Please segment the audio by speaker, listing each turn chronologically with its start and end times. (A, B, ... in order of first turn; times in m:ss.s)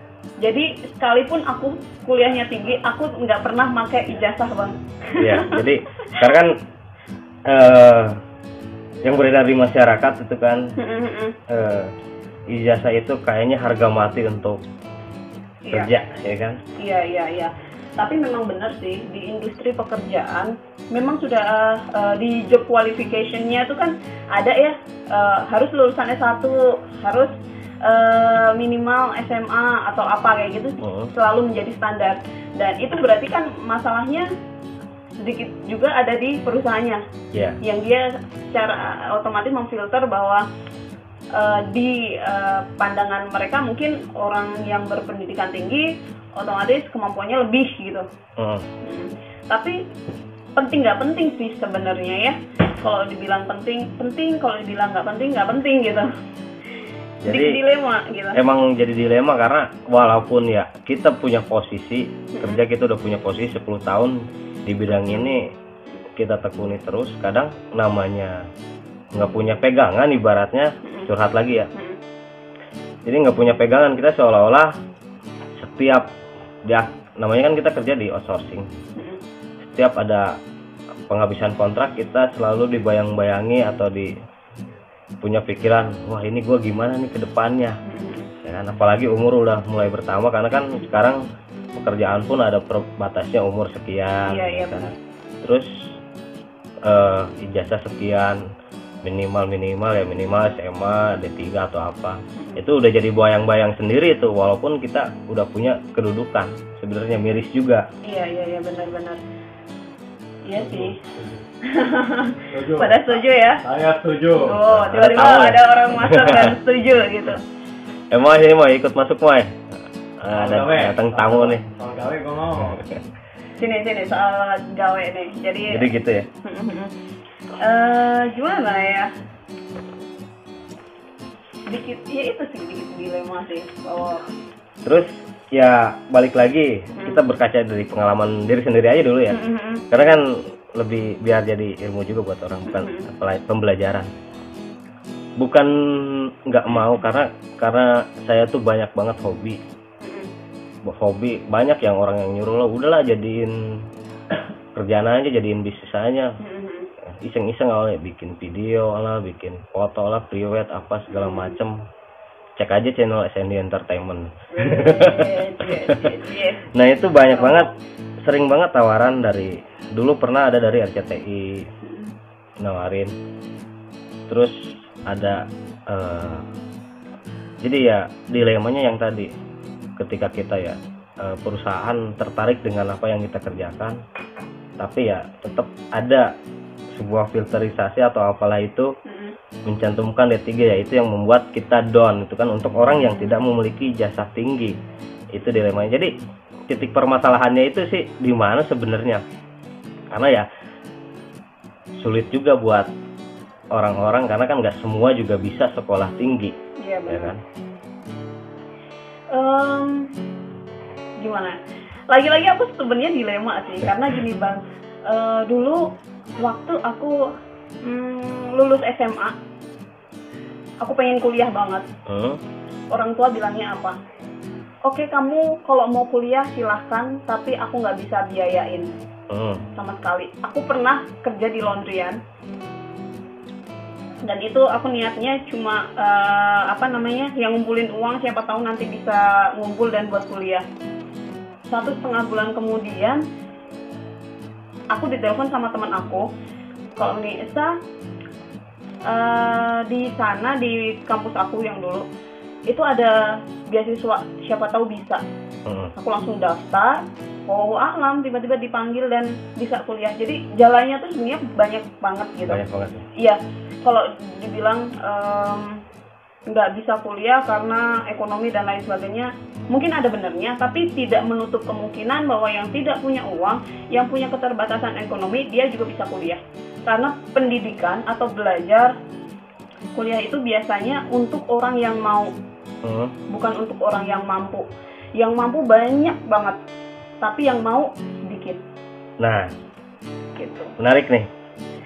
0:00.4-0:06.3 A
0:05.2-0:06.6 B
0:07.5-0:08.2 B
0:09.0-0:10.8 B
0:10.8-0:11.4 A
0:11.5-0:11.9 B
0:12.5-0:14.6 B
0:15.6-0:15.9 A
0:15.7-0:16.6 B
0:16.8-0:34.3 A
0:30.8-0:31.1 B
0:35.2-0:37.0 A
0:37.3-0:37.6 B
0:37.6-0:40.5 A
0:41.3-0:48.1 A
0:48.4-0:48.7 B
0:48.8-0:49.8 A
0:50.6-0:56.2 A
0:57.2-0:57.6 B
0:57.3-0:58.4 A
0:58.3-1:05.5 B
1:02.3-1:02.6 A
1:06.2-1:08.5 B
1:09.1-1:11.7 B
1:10.8-1:11.1 A
1:11.7-1:12.0 A
1:13.0-1:14.8 B
1:15.6-1:16.1 B
1:16.6-1:18.7 B
1:19.0-1:19.2 A
1:19.6-1:20.4 B
1:21.1-1:24.1 B
1:25.2-1:27.8 B
1:27.8-1:28.3 A
1:28.4-1:34.8 B
1:34.2-1:35.0 A
1:35.4-1:36.0 B
1:36.8-1:38.5 B
1:39.0-1:47.9 B
1:42.4-1:42.6 A
1:48.0-1:49.2 A
1:50.4-1:51.0 A
1:50.6-1:51.4 C
1:51.6-1:53.6 A
1:52.5-1:54.6 C
1:54.4-1:57.4 A
1:54.6-1:56.5 B
1:58.1-1:59.6 B
2:00.2-2:01.6 B
2:00.3-2:02.8 C
2:02.6-2:03.0 B
2:03.6-2:05.9 A
2:05.7-2:06.3 B
2:06.4-2:06.9 A
2:07.6-2:09.1 A
2:11.7-2:14.3 A
2:14.8-2:24.1 B
2:17.0-2:17.2 A
2:19.3-2:19.9 A
2:22.7-2:23.1 A
2:25.4-2:29.6 B
2:30.0-2:30.3 A
2:30.8-2:33.9 B
2:34.8-2:36.4 B
2:36.4-2:36.9 A
2:37.0-2:41.9 B
2:41.1-2:41.6 A
2:42.6-2:46.1 B
2:44.5-2:46.7 A
2:46.7-2:47.7 B
2:47.3-2:47.7 A
2:48.2-2:51.7 B
2:51.8-2:52.1 A
2:52.6-2:53.1 B
2:54.3-2:56.5 B
2:57.6-2:59.3 B
3:00.0-3:04.0 B
3:04.8-3:06.3 B
3:07.0-3:09.0 B
3:09.0-3:09.4 A
3:09.7-3:14.8 B
3:13.1-3:13.4 A
3:15.3-3:16.2 B
3:16.7-3:19.2 B
3:20.1-3:20.5 B
3:22.0-3:22.9 B
3:23.7-3:26.6 B
3:26.8-3:27.3 A
3:27.1-3:27.4 B
3:29.3-3:30.2 A
3:31.2-3:31.6 A
3:32.1-3:39.4 A
3:40.8-3:41.9 A
3:42.1-3:42.4 B
3:42.9-3:44.0 A
3:44.8-3:48.9 A
3:49.3-3:49.6 B
3:49.8-3:52.2 A
3:54.2-4:00.6 A
4:01.7-4:03.2 A
4:04.9-4:06.3 A
4:07.0-4:07.8 A
4:09.1-4:12.1 A
4:12.7-4:15.2 A
4:15.7-4:15.9 B
4:16.0-4:22.6 A
4:22.5-4:23.1 B
4:23.2-4:25.8 A
4:26.5-4:39.0 A
4:40.0-4:42.3 A
4:42.8-4:43.2 B
4:43.3-4:46.6 A
4:47.2-4:48.6 A
4:49.2-4:49.5 B
4:50.4-4:50.8 A
4:50.8-4:51.3 B